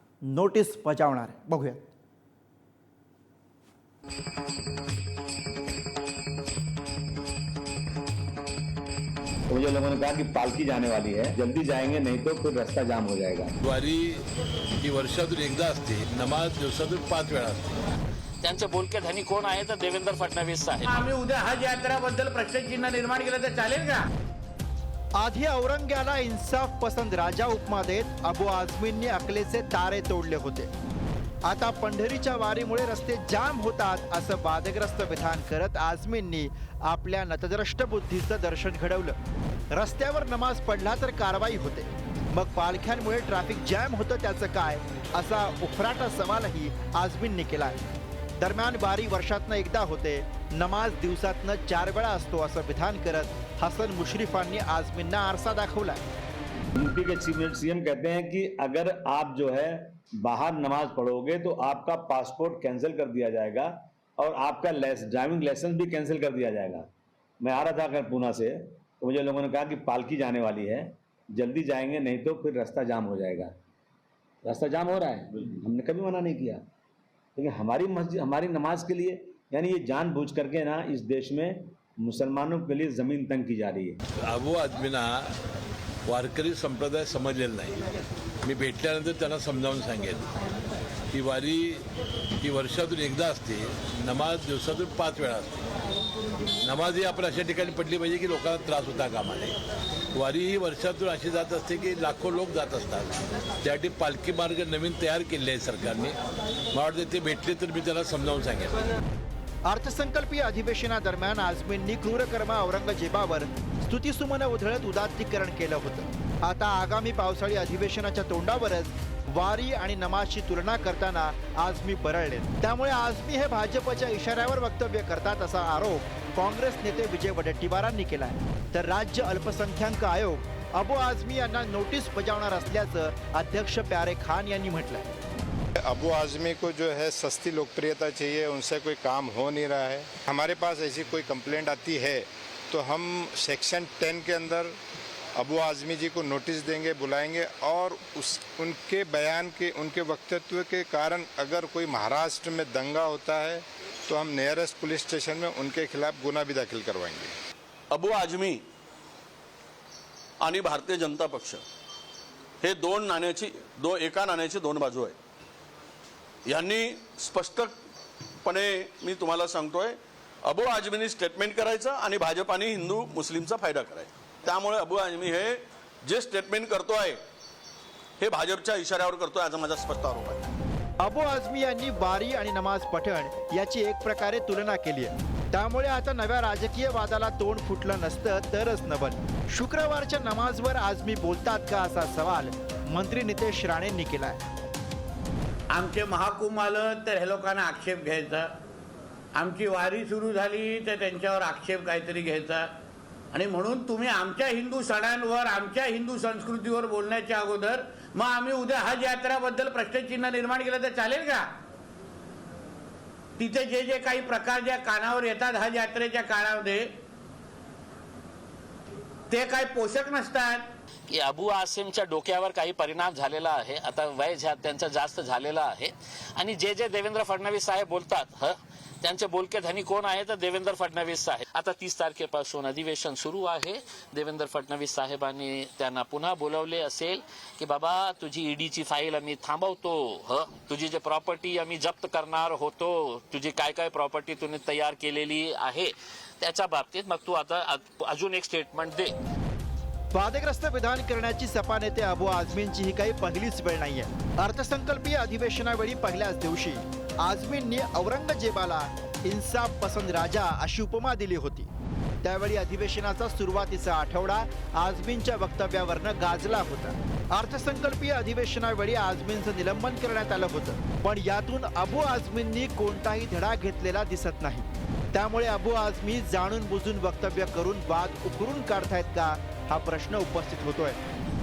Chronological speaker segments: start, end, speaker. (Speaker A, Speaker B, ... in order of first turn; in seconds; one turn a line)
Speaker A: 0.3-1.8
Speaker B: 9.5-13.5
Speaker C: 13.6-14.2
Speaker C: 14.8-17.8
Speaker D: 18.4-21.0
Speaker E: 20.9-24.1
Speaker A: 25.2-30.7
Speaker A: 31.5-39.1
Speaker A: 39.7-47.8
Speaker A: 48.4-56.0
Speaker B: 56.8-66.9
Speaker B: 67.4-73.5
Speaker B: 74.4-76.6
Speaker B: 77.3-84.0
Speaker C: 84.2-85.3
Speaker C: 86.1-87.8
Speaker C: 88.4-90.3
Speaker C: 91.1-91.8
Speaker C: 92.4-95.7
Speaker C: 96.6-99.5
Speaker C: 100.1-106.2
Speaker C: 106.7-108.8
Speaker A: 109.7-135.1
Speaker F: 135.8-144.8
Speaker F: 145.4-157.3
Speaker G: 157.9-158.6
Speaker G: 160.4-161.6
Speaker G: 162.6-165.2
Speaker G: 166.4-167.8
Speaker G: 168.4-177.2
Speaker G: 178.2-180.4
Speaker A: 181.0-194.4
Speaker E: 195.7-198.5
Speaker E: 199.3-202.7
Speaker E: 203.3-211.4
Speaker E: 213.4-216.9
Speaker E: 219.3-220.7
Speaker D: 221.1-249.1
Speaker A: 250.1-261.7
Speaker A: 262.2-281.0